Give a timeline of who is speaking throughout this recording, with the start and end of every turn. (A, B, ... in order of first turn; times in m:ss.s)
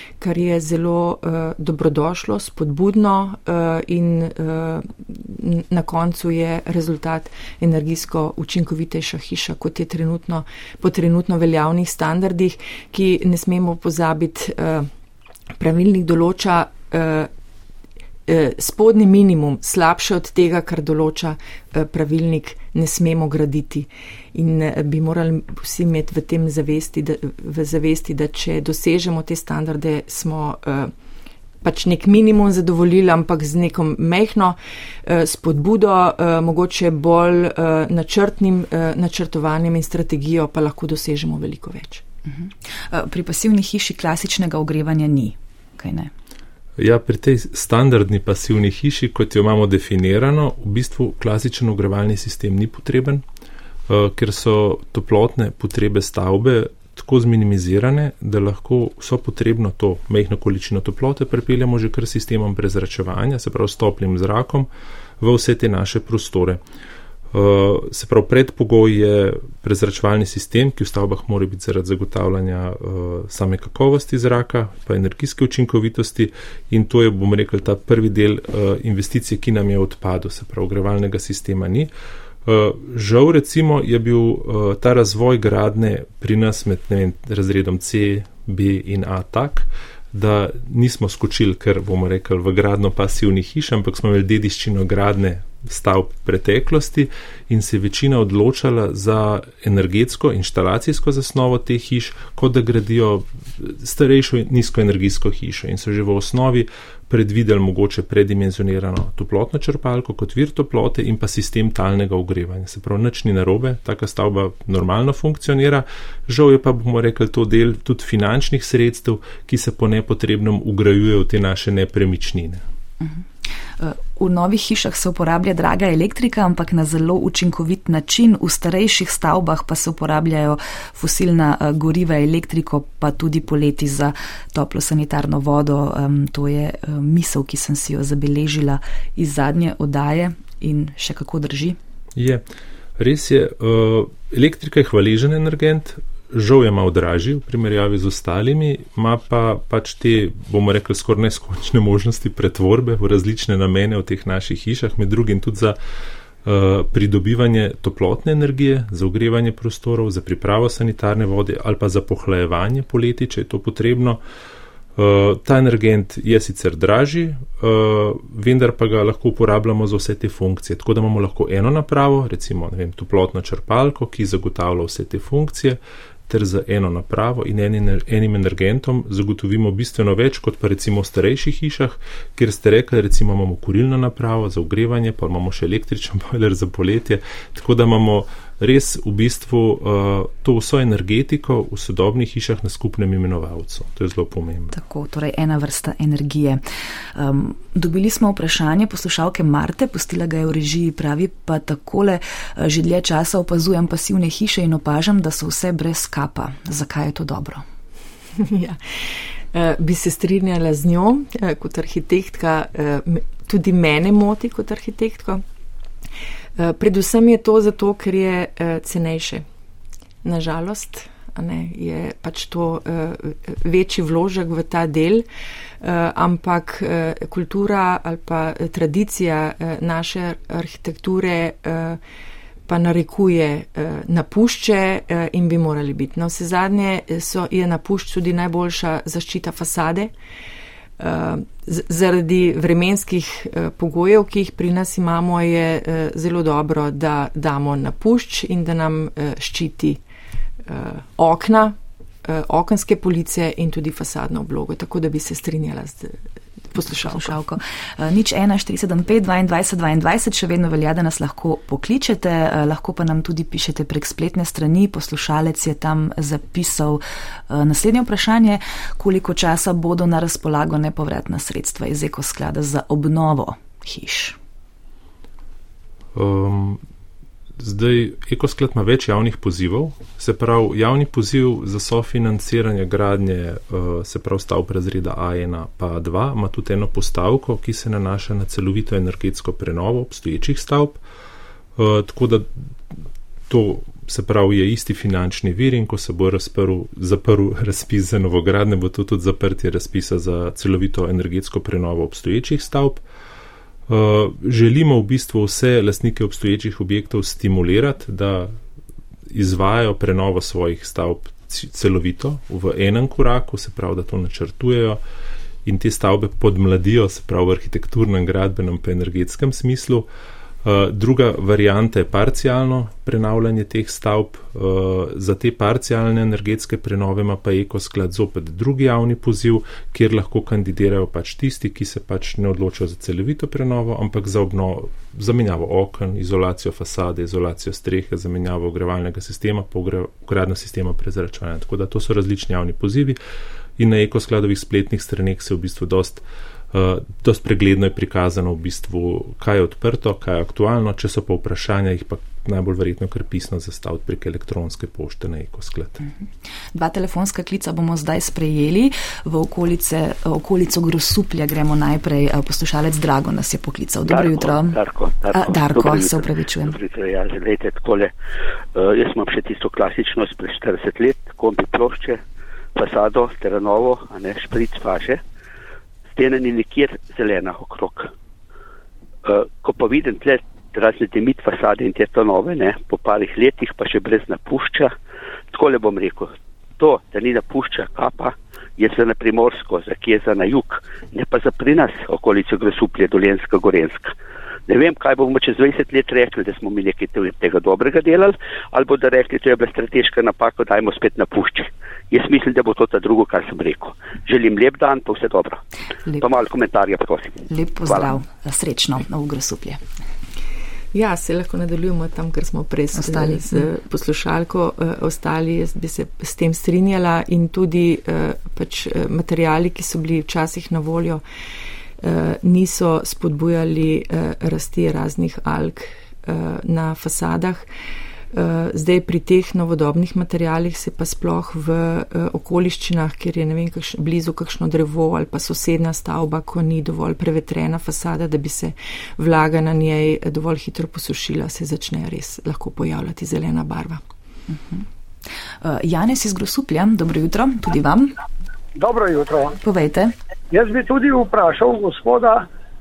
0:00.2-0:14.9 A
0:15.6-0:17.3 A
0:18.3-0:30.9 A
0:31.6-0:42.0 A
0:42.3-0:46.1 B
0:46.8-0:53.2 C
0:53.9-1:04.7 C
1:05.2-1:06.6 C
1:07.3-1:21.9 C
1:22.4-2:02.6 C
2:03.8-2:21.8 B
2:22.2-2:22.4 C
2:23.0-2:35.8 C
2:36.4-2:44.2 C
2:45.0-3:14.8 C
3:14.7-3:16.6 B
3:17.2-3:27.6 B
3:28.4-3:28.8 A
3:29.5-3:35.4 A
3:36.6-3:39.5 A
3:40.2-3:45.3 A
3:45.8-3:52.0 A
3:52.7-4:00.1 A
4:01.0-4:10.0 A
4:10.7-4:16.2 A
4:16.7-4:17.3 A
4:16.9-4:34.4 B
4:36.1-4:36.8 C
4:37.6-4:51.0 C
4:51.8-4:52.5 C
4:53.5-5:03.0 C
5:03.9-5:08.5 C
5:09.3-5:15.0 C
5:15.6-5:20.1 C
5:20.6-5:43.2 C
5:43.8-5:56.0 C
5:56.7-6:04.8 B
6:04.1-6:08.1 D
6:05.3-6:06.8 B
6:08.8-6:12.2 D
6:12.8-6:15.2 D
6:16.1-6:18.1 D
6:19.2-6:24.9 D
6:25.5-6:34.1 D
6:34.7-6:48.1 D
6:47.5-6:49.8 B
6:50.9-7:01.2 A
6:53.0-6:53.4 B
7:02.0-7:07.7 A
7:08.3-7:24.0 A
7:24.5-7:24.8 B
7:25.6-7:28.2 B
7:28.8-7:29.6 E
7:29.6-7:30.1 B
7:30.5-7:32.5 E